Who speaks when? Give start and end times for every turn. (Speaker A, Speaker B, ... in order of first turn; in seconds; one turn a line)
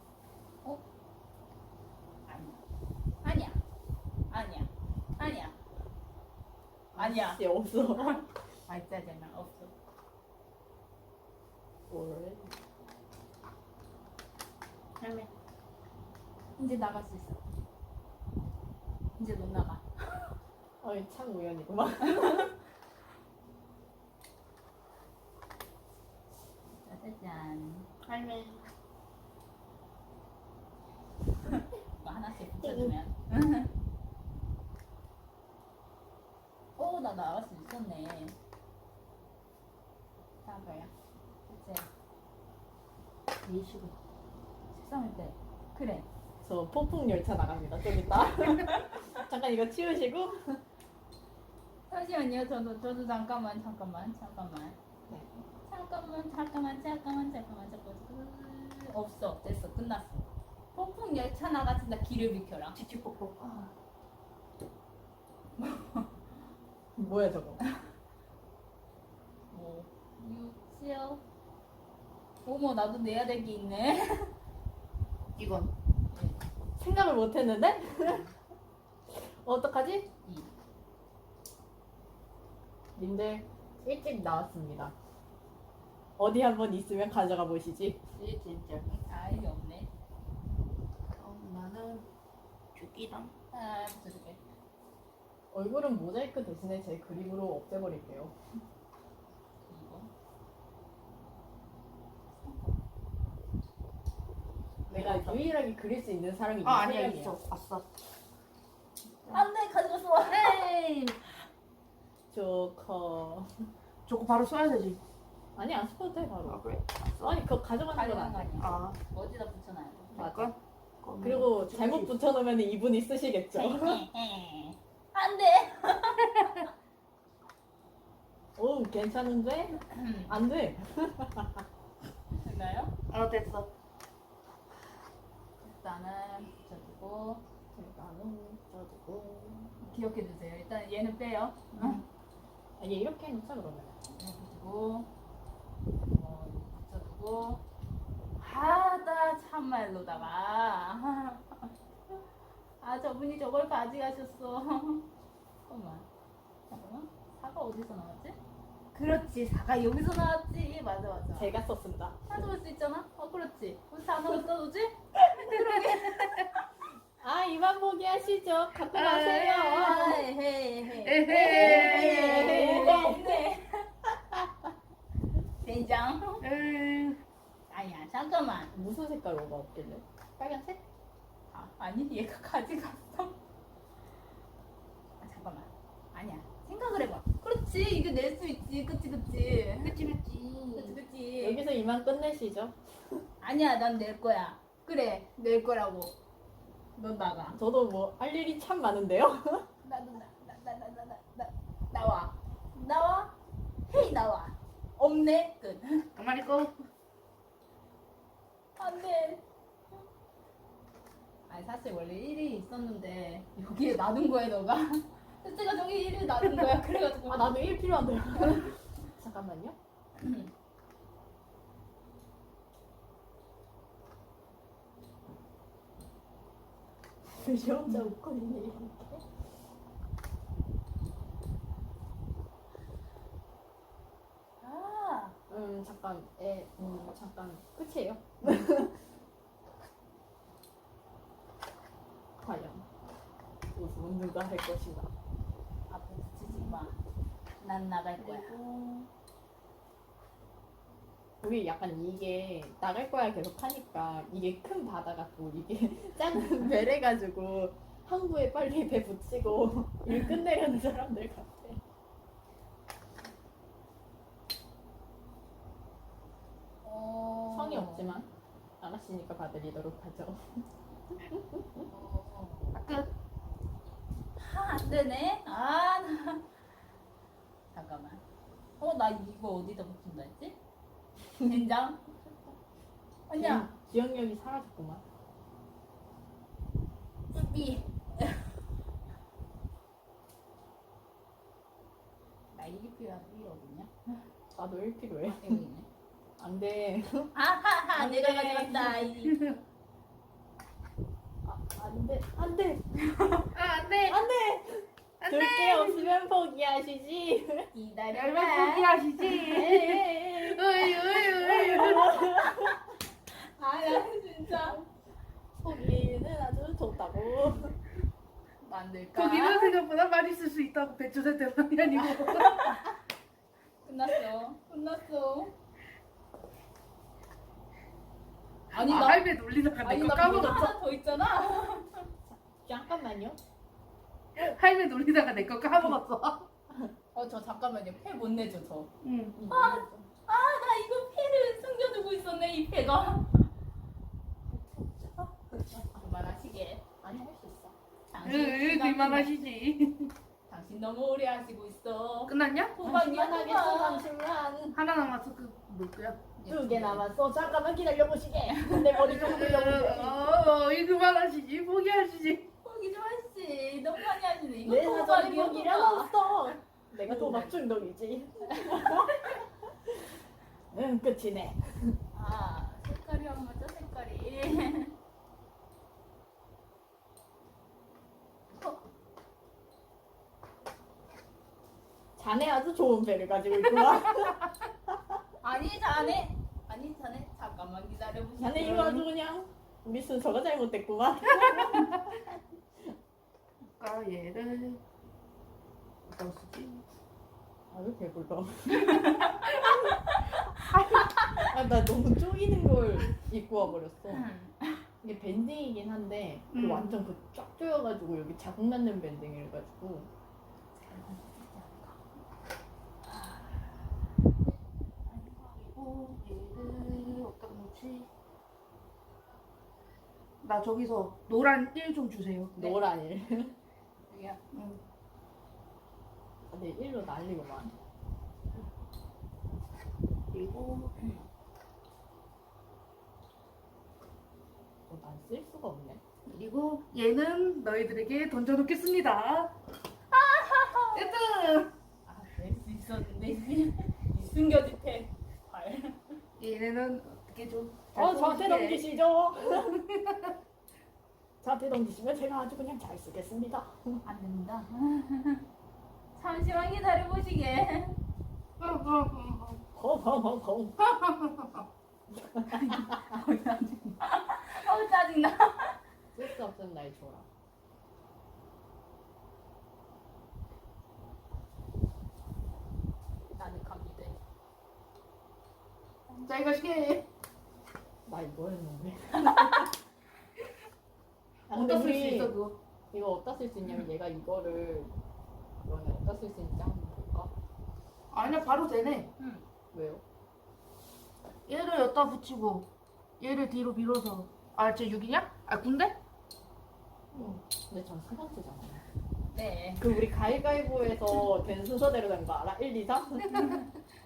Speaker A: 2.3-2.6
Speaker A: 3.2-3.6
Speaker A: 4.3-5.6
Speaker B: 6.9-8.2
Speaker A: 7.0-9.7
Speaker B: 11.9-12.6
Speaker C: 15.0-15.3
Speaker A: 16.6-17.4
Speaker A: 19.2-20.3
Speaker B: 20.8-22.5
Speaker A: 26.8-27.9
Speaker C: 28.0-28.7
Speaker A: 31.9-33.7
Speaker B: 32.6-32.9
Speaker A: 36.8-38.3
Speaker A: 40.4-40.9
Speaker A: 41.5-41.9
Speaker C: 43.4-43.9
Speaker A: 44.7-46.1
Speaker B: 46.4-50.6
Speaker A: 51.9-54.8
Speaker A: 55.6-62.8
Speaker C: 62.7-63.4
Speaker B: 63.4-63.7
Speaker A: 65.6-66.1
Speaker B: 67.0-67.6
Speaker A: 69.5-71.2
Speaker A: 72.4-74.3
Speaker C: 75.3-75.7
Speaker A: 76.1-76.4
Speaker B: 76.8-78.3
Speaker A: 78.0-78.3
Speaker B: 79.1-80.1
Speaker A: 80.2-80.5
Speaker B: 83.0-84.9
Speaker B: 86.2-88.0
Speaker C: 88.2-88.9
Speaker A: 88.9-89.9
Speaker C: 91.1-92.0
Speaker C: 92.7-93.3
Speaker A: 93.5-94.4
Speaker B: 95.5-98.3
Speaker A: 99.6-100.1
Speaker A: 102.4-102.7
Speaker C: 104.9-105.4
Speaker B: 104.9-107.3
Speaker C: 106.6-107.8
Speaker A: 109.3-110.6
Speaker C: 110.3-111.2
Speaker B: 112.3-113.5
Speaker C: 114.0-115.0
Speaker B: 115.5-116.6
Speaker C: 116.4-117.4
Speaker B: 117.2-118.5
Speaker A: 117.9-120.2
Speaker C: 118.6-119.0
Speaker C: 120.1-122.1
Speaker B: 120.2-120.5
Speaker B: 121.2-124.0
Speaker A: 123.5-126.7
Speaker B: 128.6-131.6
Speaker A: 129.9-130.3
Speaker A: 132.4-132.9
Speaker C: 133.1-133.7
Speaker A: 135.6-137.4
Speaker B: 137.7-139.7
Speaker A: 139.8-142.0
Speaker C: 141.7-142.0
Speaker B: 142.8-143.9
Speaker A: 144.1-145.1
Speaker A: 146.1-147.6
Speaker A: 148.4-151.7
Speaker A: 152.8-155.1
Speaker A: 155.7-156.1
Speaker A: 156.7-158.4
Speaker A: 158.9-161.5
Speaker B: 161.3-162.3
Speaker A: 162.3-166.5
Speaker B: 167.2-170.2
Speaker C: 168.8-170.2
Speaker A: 169.7-173.9
Speaker C: 171.0-172.6
Speaker B: 171.3-173.4
Speaker A: 175.6-176.4
Speaker C: 176.4-177.2
Speaker A: 177.7-178.7
Speaker B: 178.7-180.8
Speaker A: 181.5-183.4
Speaker A: 185.2-189.9
Speaker C: 189.8-191.0
Speaker A: 190.7-191.6
Speaker B: 191.4-193.2
Speaker A: 193.4-196.1
Speaker A: 196.9-197.6
Speaker B: 197.6-199.7
Speaker A: 199.8-203.3
Speaker A: 203.9-206.1
Speaker C: 206.2-206.8
Speaker A: 208.8-209.4
Speaker A: 211.5-217.5
Speaker B: 217.3-219.8
Speaker A: 220.2-220.5
Speaker B: 227.2-229.2
Speaker A: 234.6-235.4
Speaker B: 235.5-238.9
Speaker B: 242.4-242.8
Speaker B: 243.7-245.1
Speaker A: 245.9-246.9
Speaker C: 246.5-246.8
Speaker A: 247.6-248.5
Speaker C: 248.2-249.1
Speaker B: 251.4-261.8
Speaker A: 266.8-268.2
Speaker B: 267.5-268.3
Speaker B: 268.8-270.6
Speaker B: 271.3-271.8
Speaker A: 271.9-272.8
Speaker C: 272.7-273.1
Speaker A: 274.4-276.4
Speaker A: 277.7-278.2
Speaker A: 278.8-280.6
Speaker A: 281.4-282.0
Speaker A: 283.3-283.7
Speaker B: 283.4-285.0
Speaker A: 287.3-288.6
Speaker A: 292.5-293.9
Speaker B: 294.5-295.6
Speaker A: 295.3-295.9
Speaker B: 296.4-297.3
Speaker A: 297.3-299.4
Speaker B: 297.9-299.0
Speaker C: 299.1-299.6
Speaker B: 301.4-302.8
Speaker C: 303.5-304.2
Speaker B: 304.0-307.7
Speaker C: 305.2-306.1
Speaker A: 307.7-309.6
Speaker C: 308.1-312.3
Speaker B: 309.3-312.9
Speaker A: 313.3-314.8
Speaker B: 315.6-317.8
Speaker A: 318.6-319.8
Speaker C: 319.1-322.8
Speaker A: 323.8-325.5
Speaker A: 328.7-329.3
Speaker C: 328.7-330.8
Speaker A: 329.8-332.1
Speaker B: 332.3-333.4
Speaker C: 334.4-336.5
Speaker A: 337.1-338.9
Speaker C: 339.0-339.4
Speaker B: 339.3-340.1
Speaker A: 339.5-343.5
Speaker B: 344.5-345.9
Speaker A: 345.7-346.8
Speaker B: 347.0-347.7
Speaker A: 348.1-349.3
Speaker C: 348.2-350.1
Speaker A: 350.5-354.1
Speaker C: 352.3-352.8
Speaker B: 352.8-354.8
Speaker C: 354.7-356.3
Speaker A: 356.4-357.1
Speaker B: 356.5-360.2
Speaker A: 358.5-358.9
Speaker C: 359.0-362.4
Speaker A: 362.6-366.1
Speaker B: 364.6-370.0
Speaker A: 367.1-367.5
Speaker A: 368.6-369.4
Speaker B: 370.7-372.0
Speaker A: 372.1-374.9
Speaker B: 382.2-385.2
Speaker A: 385.4-389.1
Speaker B: 388.4-392.2
Speaker C: 393.8-394.8
Speaker C: 396.1-396.8
Speaker B: 397.7-399.9
Speaker A: 398.7-400.2
Speaker B: 401.0-404.2
Speaker A: 404.1-404.9
Speaker B: 405.0-410.1
Speaker C: 406.5-407.0
Speaker A: 410.7-412.0
Speaker A: 413.0-413.7
Speaker A: 415.1-415.7
Speaker C: 415.8-418.1
Speaker C: 420.4-422.7
Speaker B: 422.5-423.5
Speaker A: 424.1-424.4
Speaker C: 424.5-424.8
Speaker B: 426.5-427.7
Speaker C: 430.3-430.9
Speaker B: 434.9-436.0
Speaker C: 436.2-439.5
Speaker A: 440.1-441.1
Speaker C: 440.9-441.7
Speaker A: 442.0-446.2
Speaker C: 446.4-448.9
Speaker B: 447.9-449.8
Speaker C: 449.4-450.3
Speaker B: 451.4-454.0
Speaker A: 454.0-455.4
Speaker A: 456.1-458.0
Speaker C: 458.6-459.6
Speaker B: 459.7-460.8
Speaker C: 460.9-461.6
Speaker B: 462.3-462.9
Speaker A: 462.4-465.8
Speaker B: 466.1-467.3
Speaker A: 473.4-474.1
Speaker C: 476.2-477.1
Speaker B: 478.1-479.7
Speaker B: 481.5-482.4
Speaker C: 481.5-482.6
Speaker B: 482.9-484.9
Speaker B: 485.6-487.3
Speaker C: 488.1-489.1
Speaker A: 489.2-489.4
Speaker B: 489.7-490.0
Speaker C: 491.5-492.7
Speaker C: 493.2-495.9
Speaker B: 497.1-498.8
Speaker A: 499.3-499.9
Speaker B: 499.8-503.4
Speaker C: 503.2-503.7